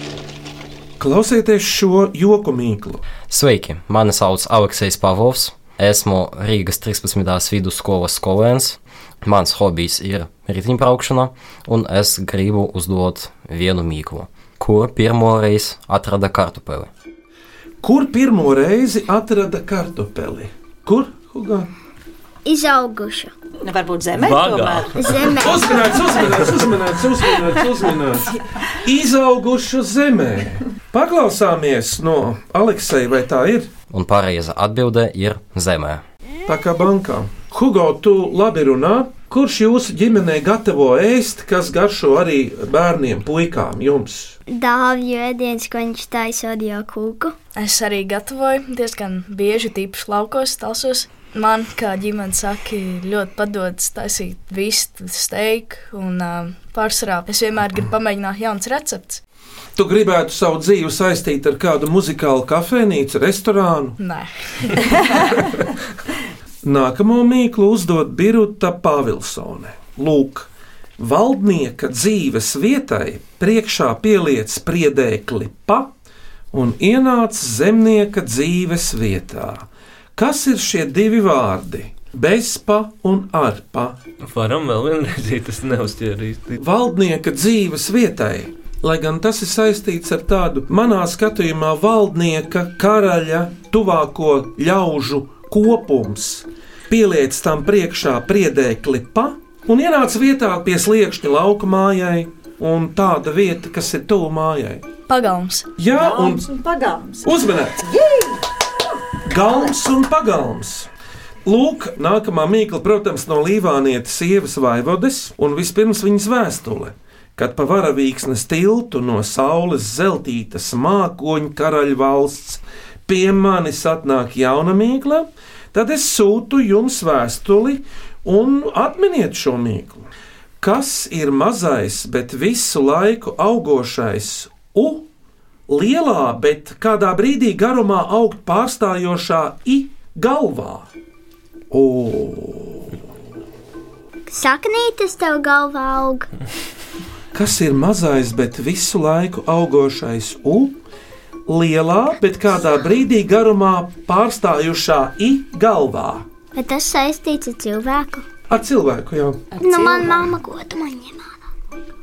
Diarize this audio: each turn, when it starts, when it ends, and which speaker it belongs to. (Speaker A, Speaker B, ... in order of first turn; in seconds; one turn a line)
Speaker A: 1.0-3.0
Speaker B: 3.3-16.9
Speaker A: 17.8-21.7
Speaker C: 22.4-23.3
Speaker D: 23.6-25.2
Speaker E: 24.2-25.4
Speaker C: 24.9-26.0
Speaker A: 25.4-33.7
Speaker B: 33.9-36.0
Speaker A: 36.5-44.4
Speaker C: 44.5-47.3
Speaker F: 47.5-59.2
Speaker A: 59.8-64.0
Speaker F: 64.0-65.0
Speaker A: 66.6-75.9
Speaker A: 76.5-84.0
Speaker E: 84.2-86.6
Speaker A: 86.6-104.8
Speaker F: 105.1-105.7
Speaker A: 105.8-106.4
Speaker D: 105.9-107.3
Speaker A: 107.2-107.8
Speaker D: 107.8-108.5
Speaker A: 109.2-110.9
Speaker A: 111.4-130.1
Speaker A: 130.6-135.1
Speaker A: 135.7-140.9
Speaker A: 141.7-142.9
Speaker C: 144.3-146.3
Speaker A: 147.3-150.8
Speaker A: 151.5-156.2
Speaker C: 156.5-158.2
Speaker A: 158.5-159.4
Speaker D: 159.5-160.3
Speaker C: 159.6-161.3